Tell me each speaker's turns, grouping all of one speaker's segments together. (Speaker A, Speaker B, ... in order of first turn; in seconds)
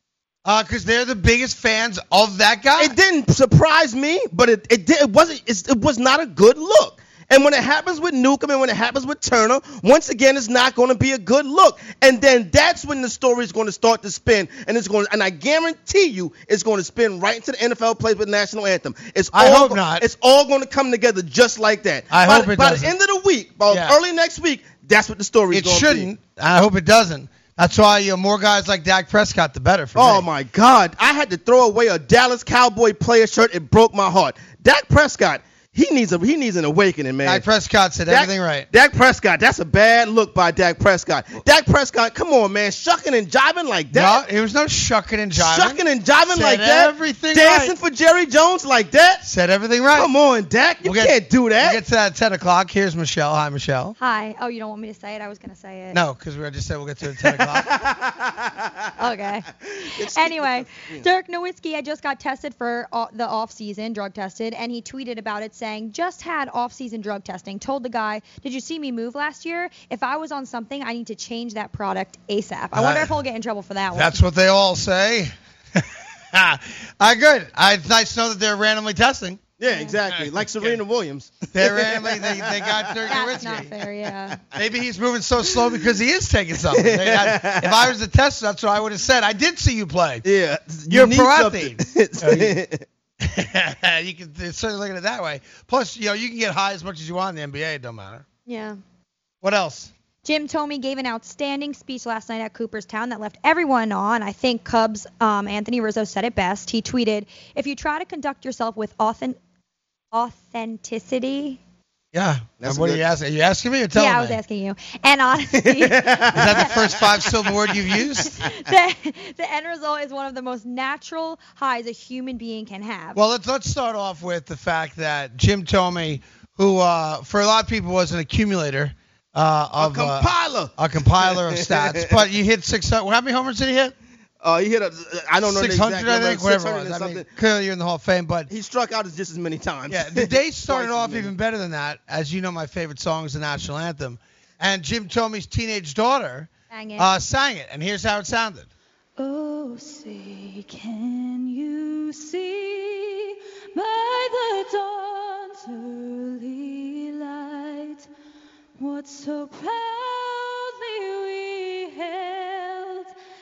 Speaker A: 0.5-3.0, 19.3-20.0, 22.1-22.9, 23.7-24.0, 25.5-30.3, 37.2-38.7, 43.9-47.7, 49.2-50.1, 50.8-54.0, 55.9-57.8, 72.7-73.1, 73.9-79.4, 80.1-80.8, 81.5-83.7, 84.5-90.2, 90.9-92.6, 93.2-98.2, 99.4-99.9, 112.1-114.4, 116.3-118.4, 123.2-133.9, 135.4-138.5, 139.9-148.7
Speaker B: 2.8-26.1, 29.9-37.5, 38.1-44.2, 45.4-49.3, 50.0-51.8, 57.2-58.9, 59.6-61.1, 79.6-83.4, 86.7-87.9, 90.2-92.8, 112.6-113.1, 115.5-117.7, 129.8-132.2, 134.4-137.3, 138.5-141.3
Speaker C: 54.0-56.0, 59.0-74.2, 79.7-80.0, 83.1-84.4, 98.5-98.8, 100.2-109.4, 110.1-111.6, 113.9-117.2, 118.1-123.2, 146.7-147.2
Speaker D: 149.2-158.1, 158.8-163.1